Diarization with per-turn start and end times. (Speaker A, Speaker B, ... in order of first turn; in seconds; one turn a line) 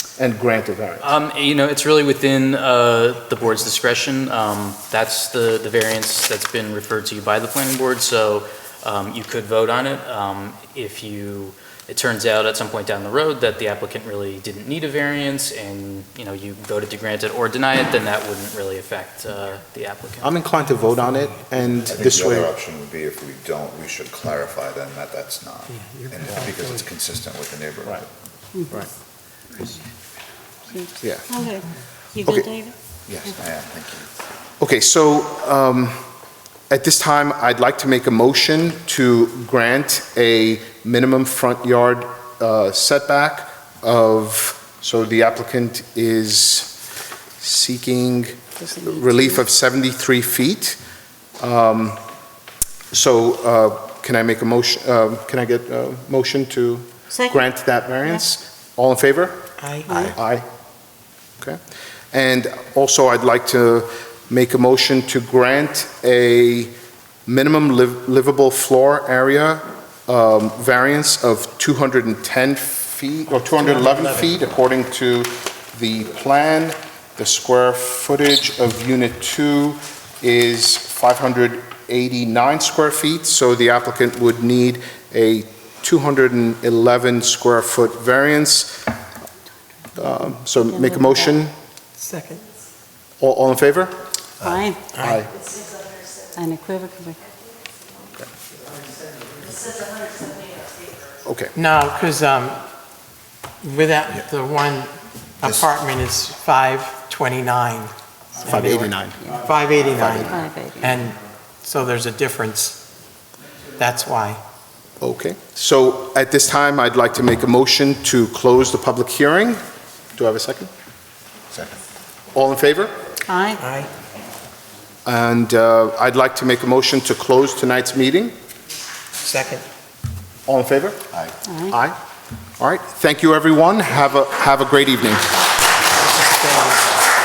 Speaker A: 0.2-1.1
Speaker B: 1.0-20.3
Speaker A: 20.2-22.5
Speaker C: 20.6-21.8
Speaker D: 21.9-28.1
Speaker C: 25.8-26.5
Speaker E: 30.7-32.7
Speaker A: 31.0-31.4
Speaker D: 33.1-34.1
Speaker A: 34.6-36.0
Speaker A: 36.7-46.8
Speaker A: 47.4-50.8
Speaker E: 48.6-49.4
Speaker A: 51.4-52.0
Speaker A: 52.9-59.5
Speaker C: 59.6-59.9
Speaker A: 60.0-60.5
Speaker A: 62.1-66.7
Speaker A: 67.3-88.9
Speaker C: 73.5-74.3
Speaker A: 90.0-91.5
Speaker E: 90.6-91.3
Speaker C: 92.0-92.4
Speaker A: 93.2-94.0
Speaker E: 94.4-94.9
Speaker A: 95.0-95.3
Speaker E: 96.3-97.2
Speaker A: 101.2-101.5
Speaker C: 101.5-102.7
Speaker C: 103.6-112.8
Speaker A: 108.4-109.3
Speaker A: 109.9-110.4
Speaker E: 110.3-111.0
Speaker C: 113.8-114.4
Speaker A: 115.0-119.6
Speaker A: 120.2-120.7
Speaker A: 122.3-122.9
Speaker E: 123.3-123.7
Speaker C: 123.6-123.9
Speaker A: 125.0-128.3
Speaker C: 129.2-129.7
Speaker A: 130.5-132.0
Speaker E: 131.5-131.7
Speaker A: 132.6-135.3
Speaker C: 136.1-136.8